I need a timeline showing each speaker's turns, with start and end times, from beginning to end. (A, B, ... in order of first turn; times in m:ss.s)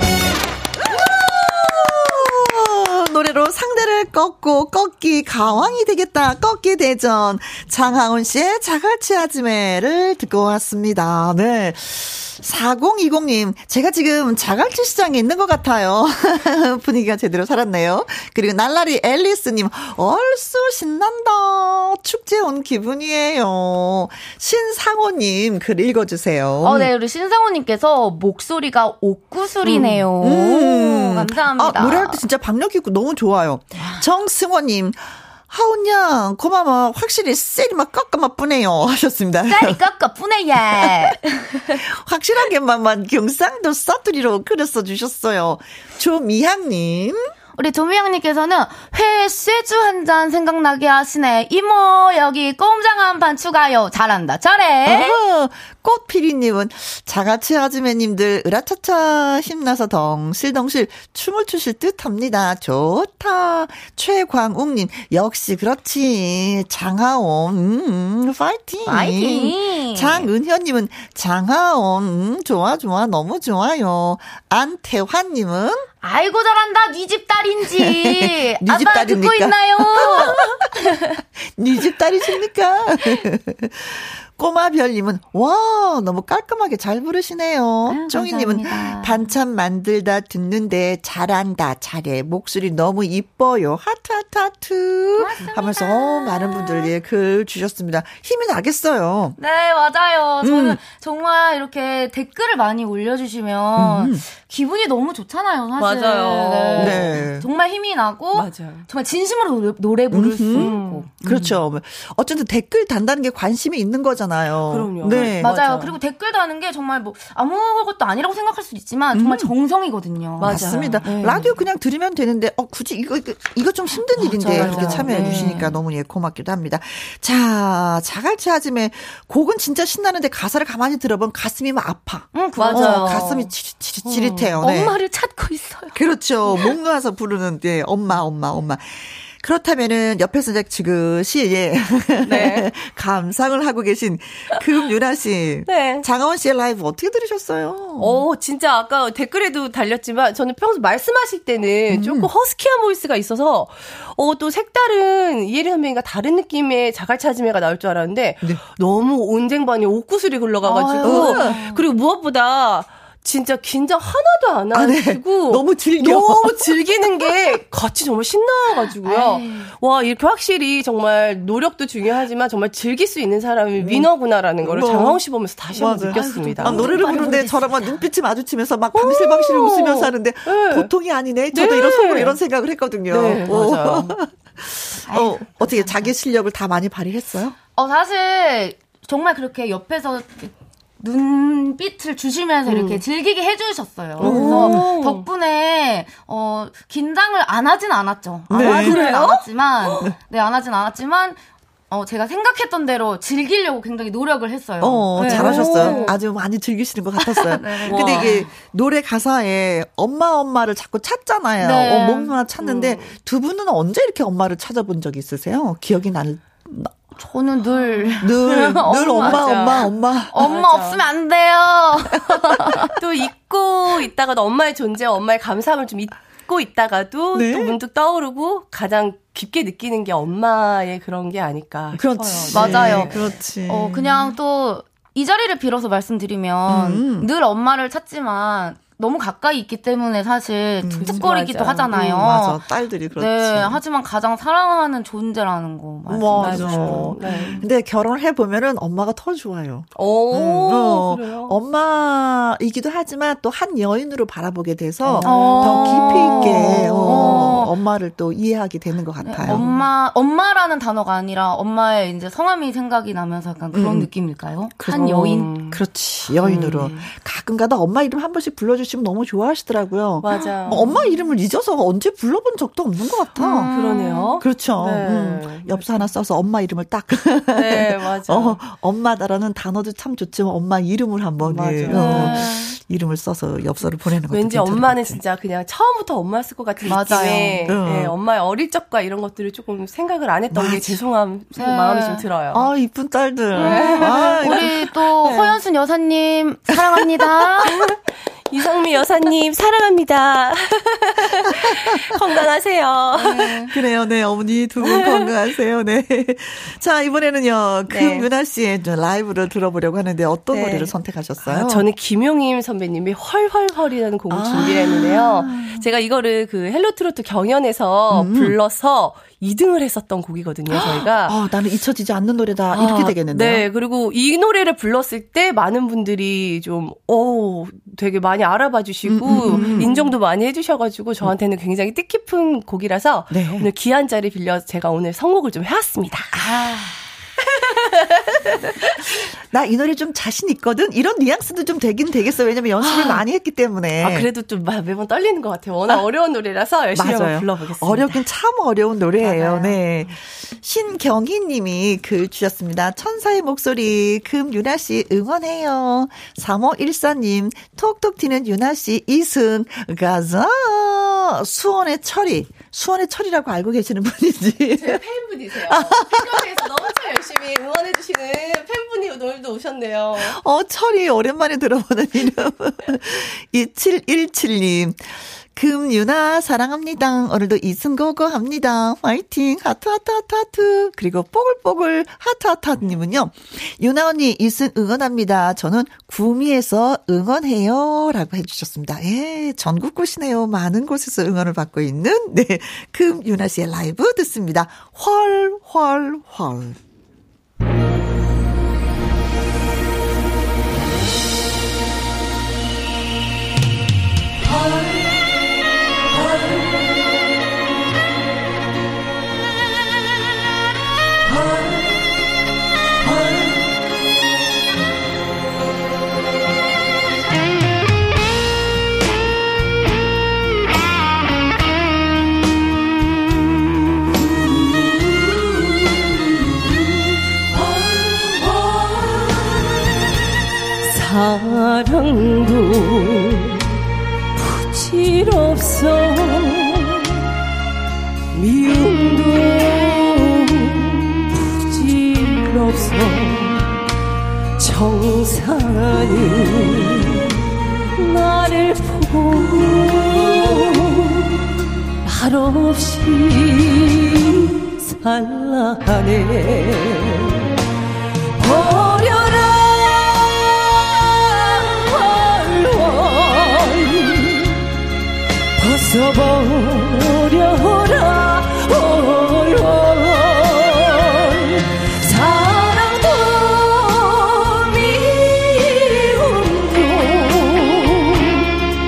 0:00.8-0:26.9 A
0:26.6-0:32.2 B
0:29.6-0:39.8 A
0:39.5-0:41.8 B
0:40.7-0:41.1 A
0:41.7-0:47.3 A
0:47.6-0:55.2 B
0:54.9-1:15.9 A
1:08.9-1:10.3 B
1:16.0-1:21.0 B
1:17.8-1:20.9 A
1:21.4-1:39.4 A
1:27.9-1:29.2 B
1:35.2-1:36.9 B
1:39.4-1:51.1 B
1:40.4-1:40.8 A
1:43.8-1:44.2 A
1:45.8-1:47.2 C
1:46.8-1:47.5 A
1:48.3-1:48.9 C
1:50.1-1:55.5 A
1:50.5-1:51.6 C
1:54.7-1:56.0 C
1:55.4-2:01.5 B
1:59.1-1:59.5 A
2:00.4-2:01.1 C
2:00.4-2:15.0 A
2:04.3-2:05.7 C
2:04.4-2:05.7 B
2:12.3-2:13.4 B
2:12.6-2:13.5 C
2:14.0-2:15.5 C
2:16.0-2:28.2 A
2:22.2-2:22.7 C
2:25.7-2:26.1 C
2:28.0-2:57.4 C
2:31.9-2:32.3 A
2:40.6-2:41.8 B
2:41.0-2:41.6 A
2:44.7-2:46.7 A
2:49.0-2:49.7 B
2:53.8-2:54.1 A
2:54.6-3:07.6 A
2:56.1-2:58.0 B
2:58.9-3:00.9 C
3:01.5-3:02.4 C
3:03.1-3:04.2 C
3:05.1-3:06.1 B
3:07.8-3:26.1 B
3:12.7-3:13.0 C
3:14.2-3:15.2 C
3:14.2-3:14.9 A
3:18.5-3:19.2 A
3:18.6-3:20.0 C
3:24.8-3:37.0 A
3:25.2-3:26.2 C
3:27.3-3:28.5 B
3:27.9-3:28.4 C
3:31.6-3:32.4 B
3:32.6-3:33.2 C
3:37.2-3:42.9 B
3:38.2-3:40.6 A
3:38.8-3:41.0 C
3:43.0-3:53.3 C
3:47.3-3:47.8 A
3:51.9-3:54.3 A
3:52.5-3:53.2 B
3:53.7-4:02.6 B
3:56.7-3:57.3 A
4:00.8-4:01.3 A
4:01.0-4:02.2 C
4:01.9-4:03.8 A
4:03.2-4:07.6 B
4:06.1-4:19.7 A
4:06.4-4:07.6 C
4:10.0-4:11.6 C
4:15.0-4:17.7 C
4:15.2-4:17.7 B
4:19.2-4:25.5 B
4:19.5-4:19.8 C
4:23.7-4:24.1 A
4:24.8-4:33.7 A
4:24.9-4:25.8 C
4:26.4-4:27.1 C
4:30.2-4:31.0 C
4:30.4-4:31.0 B
4:33.4-4:34.4 B
4:33.6-4:36.1 C
4:34.4-4:45.2 A
4:37.5-4:38.6 C
4:41.4-4:42.6 C
4:41.9-4:42.7 B
4:44.3-4:52.7 C
4:46.9-4:47.7 B
4:46.9-4:48.2 A
4:50.5-4:51.0 A
4:51.6-4:52.3 B
4:52.5-4:54.8 A
4:53.5-4:54.7 C
4:53.6-4:57.8 B
4:55.2-4:55.6 C
4:57.6-4:58.0 C
4:58.5-5:03.7 C
5:01.5-5:02.1 A
5:03.2-5:03.7 B
5:03.2-5:11.9 A
5:04.8-5:05.3 C
5:07.9-5:08.3 C
5:10.5-5:10.9 C
5:11.5-5:21.4 C
5:14.3-5:15.9 A
5:18.1-5:18.6 A
5:20.7-5:23.6 A
5:22.7-5:36.5 C
5:29.0-5:30.1 A
5:33.3-5:33.7 A
5:36.4-5:36.7 A
5:39.4-5:44.3 A
5:42.8-5:43.2 C
5:44.0-5:48.3 C
5:46.9-6:05.0 A
5:49.2-5:49.8 C
6:04.8-6:10.4 C
6:05.6-6:06.6 A
6:10.2-6:36.8 A
7:07.6-7:09.1 C
7:10.8-7:13.6 C
7:14.4-7:17.1 C
7:18.3-7:23.6 C
7:24.6-7:27.2 C
7:28.0-7:31.2 C
7:32.0-7:37.4 C
7:38.4-7:44.6 C
7:45.6-7:58.5 C